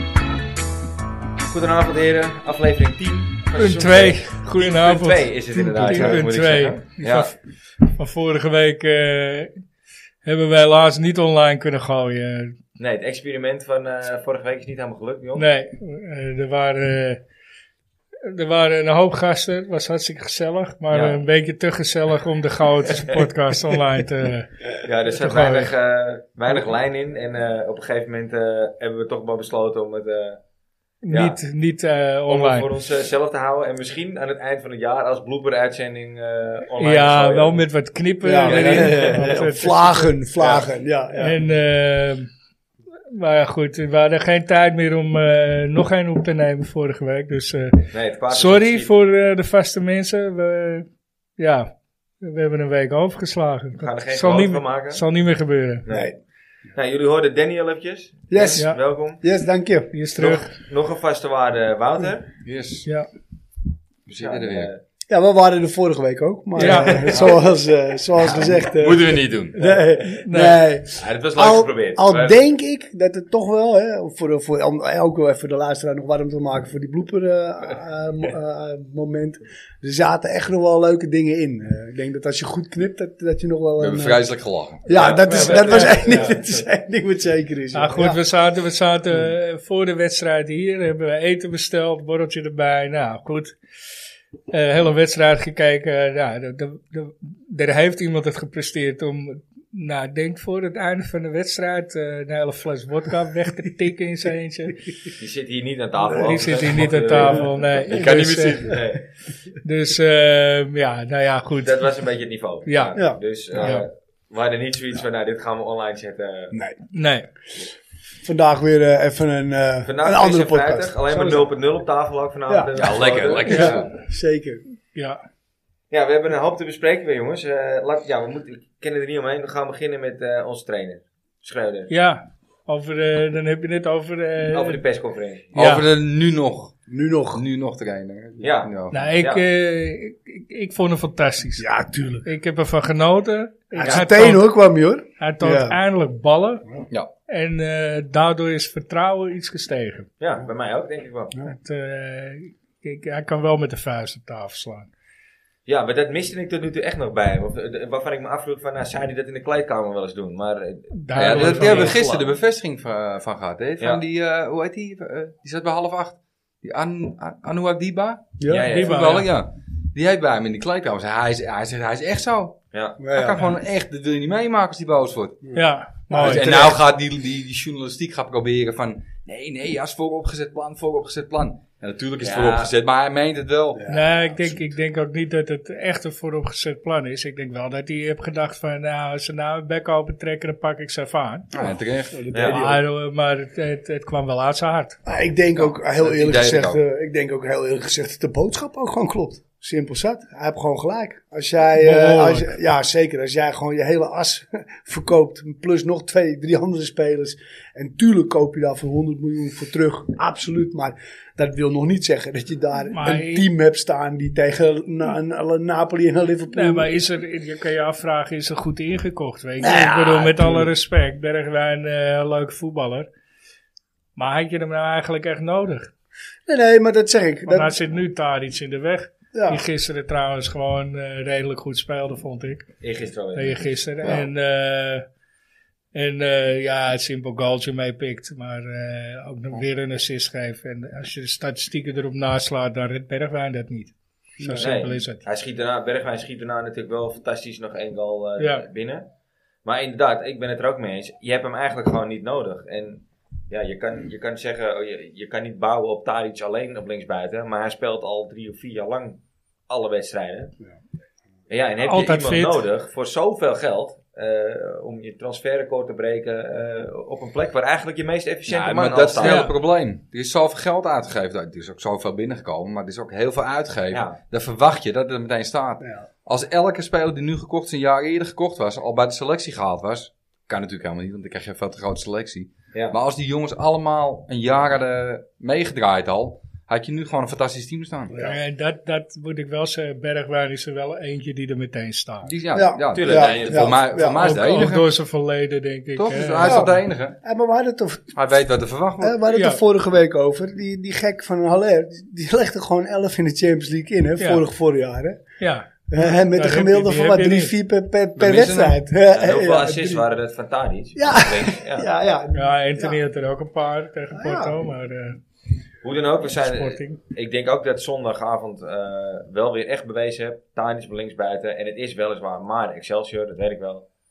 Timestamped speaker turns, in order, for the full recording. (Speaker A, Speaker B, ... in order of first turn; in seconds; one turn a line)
Speaker A: 1.4-7.3
Speaker B: 3.5-7.3
Speaker C: 5.6-6.2
Speaker B: 7.9-9.5
Speaker B: 10.2-12.6
Speaker A: 12.8-15.4
Speaker B: 15.4-17.2
Speaker B: 18.2-24.6
Speaker A: 20.9-21.2
Speaker A: 22.9-23.3
Speaker A: 24.8-30.4
Speaker B: 25.2-25.7
Speaker B: 31.0-32.7
Speaker A: 31.1-31.4
Speaker A: 32.3-37.6
Speaker B: 36.8-40.1
Speaker C: 38.2-41.4
Speaker A: 38.4-39.4
Speaker A: 40.4-40.7
Speaker B: 41.2-42.3
Speaker B: 43.1-50.9
Speaker A: 47.9-48.9
Speaker B: 51.4-55.8
Speaker A: 53.8-55.0
Speaker A: 55.8-56.1
Speaker C: 55.9-56.1
Speaker A: 56.8-59.2
Speaker C: 58.3-58.7
Speaker C: 59.2-59.9
Speaker B: 59.9-60.5
Speaker A: 60.2-62.3
Speaker D: 62.5-62.9
Speaker D: 64.1-64.7
Speaker A: 64.2-64.8
Speaker C: 65.1-84.2
Speaker B: 66.6-67.0
Speaker A: 66.7-67.1
Speaker D: 67.0-67.4
Speaker D: 68.2-69.8
Speaker B: 70.0-70.6
Speaker A: 71.0-72.4
Speaker D: 83.8-85.1
Speaker C: 84.8-88.2
Speaker A: 84.9-86.4
Speaker B: 85.0-86.4
Speaker B: 87.7-93.6
Speaker B: 94.5-104.9
Speaker A: 105.2-107.7
Speaker C: 106.1-106.4
Speaker B: 106.1-108.8
Speaker D: 107.8-108.8
Speaker A: 108.7-109.0
Speaker B: 109.6-111.8
Speaker A: 111.6-116.5
Speaker B: 112.7-113.0
Speaker C: 113.0-113.8
Speaker B: 113.6-113.8
Speaker B: 116.9-117.3
Speaker C: 118.2-121.5
Speaker A: 119.8-123.8
Speaker C: 122.5-124.6
Speaker D: 122.7-123.9
Speaker B: 124.9-125.2
Speaker A: 125.9-131.9
Speaker B: 131.9-134.8
Speaker A: 134.5-135.5
Speaker B: 135.6-135.9
Speaker D: 135.6-136.8
Speaker C: 136.9-137.4
Speaker D: 137.3-139.1
Speaker A: 138.4-139.4
Speaker B: 138.9-141.7
Speaker C: 141.6-142.3
Speaker B: 142.2-144.5
Speaker C: 143.8-145.8
Speaker B: 145.2-146.6
Speaker B: 147.3-150.1
Speaker A: 150.2-151.3
Speaker B: 151.4-154.9
Speaker A: 155.7-162.4
Speaker B: 160.9-162.0
Speaker D: 161.1-172.6
Speaker C: 168.4-168.7
Speaker A: 168.5-169.2
Speaker B: 168.7-169.3
Speaker A: 172.7-173.0
Speaker C: 173.0-173.5
Speaker D: 173.1-175.6
Speaker B: 175.5-176.5
Speaker C: 176.1-176.8
Speaker D: 176.1-183.8
Speaker A: 182.2-182.7
Speaker C: 183.7-184.5
Speaker B: 183.9-191.5
Speaker D: 191.5-192.6
Speaker C: 191.6-192.8
Speaker A: 192.3-192.6
Speaker B: 192.5-195.0
Speaker C: 195.1-216.9
Speaker D: 195.6-196.8
Speaker B: 201.8-202.5
Speaker B: 212.9-213.4
Speaker B: 216.5-223.1
Speaker C: 219.6-220.7
Speaker B: 224.2-225.9
Speaker C: 226.4-227.8
Speaker B: 227.4-232.7
Speaker C: 229.3-229.6
Speaker A: 232.8-233.7
Speaker B: 233.3-235.1
Speaker B: 235.9-245.2
Speaker C: 244.4-244.7
Speaker A: 244.6-249.1
Speaker B: 248.4-248.6
Speaker A: 249.6-260.5
Speaker A: 261.5-269.5
Speaker B: 261.8-262.6
Speaker D: 268.5-288.3
Speaker B: 269.2-269.5
Speaker A: 273.9-274.2
Speaker B: 288.2-292.3
Speaker D: 292.2-294.9
Speaker C: 292.5-294.6
Speaker A: 292.9-293.8
Speaker B: 294.1-296.6
Speaker D: 295.9-297.1
Speaker C: 296.4-298.2
Speaker D: 298.1-299.2
Speaker C: 299.0-305.2
Speaker B: 299.3-299.6
Speaker B: 304.2-304.4
Speaker B: 305.4-307.5
Speaker C: 305.9-310.1
Speaker D: 308.2-308.8
Speaker A: 309.1-311.9
Speaker C: 310.9-313.0
Speaker B: 312.3-315.2
Speaker C: 314.1-314.6
Speaker A: 315.8-323.8
Speaker B: 316.4-317.0